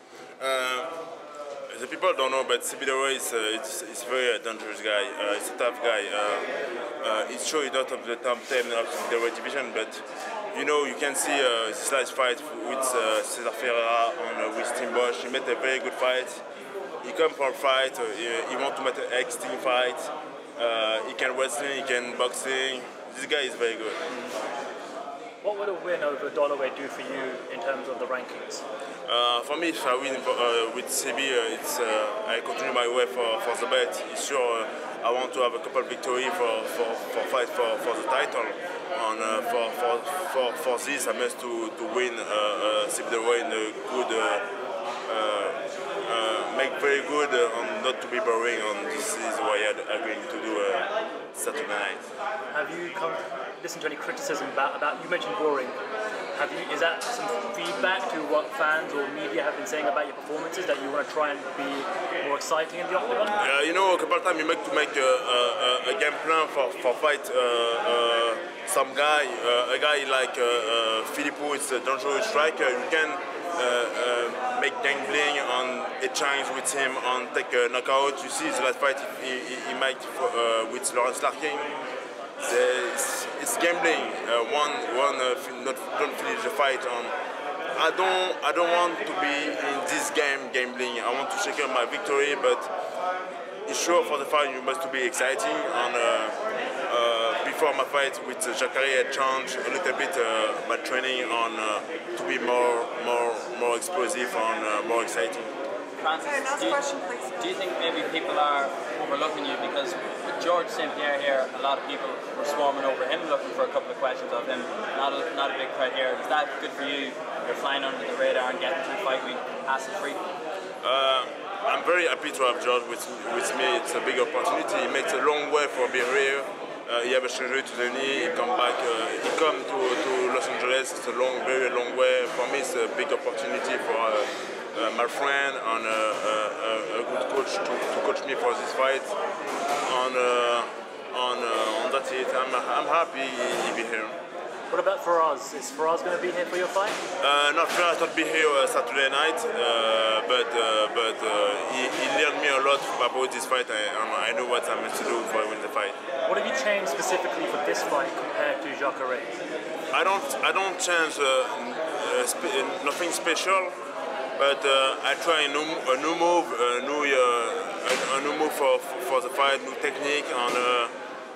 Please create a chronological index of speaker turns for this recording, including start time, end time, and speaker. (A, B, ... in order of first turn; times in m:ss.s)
0:00.4-0:00.9 A
0:01.7-0:06.5 A
0:07.0-0:16.4 A
0:17.0-0:24.0 A
0:25.4-0:28.6 B
0:29.1-0:44.4 A
0:45.1-0:52.0 A
0:52.5-0:55.8 B
0:56.3-1:03.4 B
1:03.4-1:21.7 A
1:22.4-1:27.1 A
1:27.8-1:32.7 A
1:33.6-1:45.5 A
1:46.0-2:00.2 C
2:00.8-2:19.1 A
2:19.8-2:24.2 A
2:24.7-2:27.0 B
2:27.2-2:36.0 A
2:36.2-2:39.4 B
2:39.9-2:43.8 A
2:44.4-2:50.9 A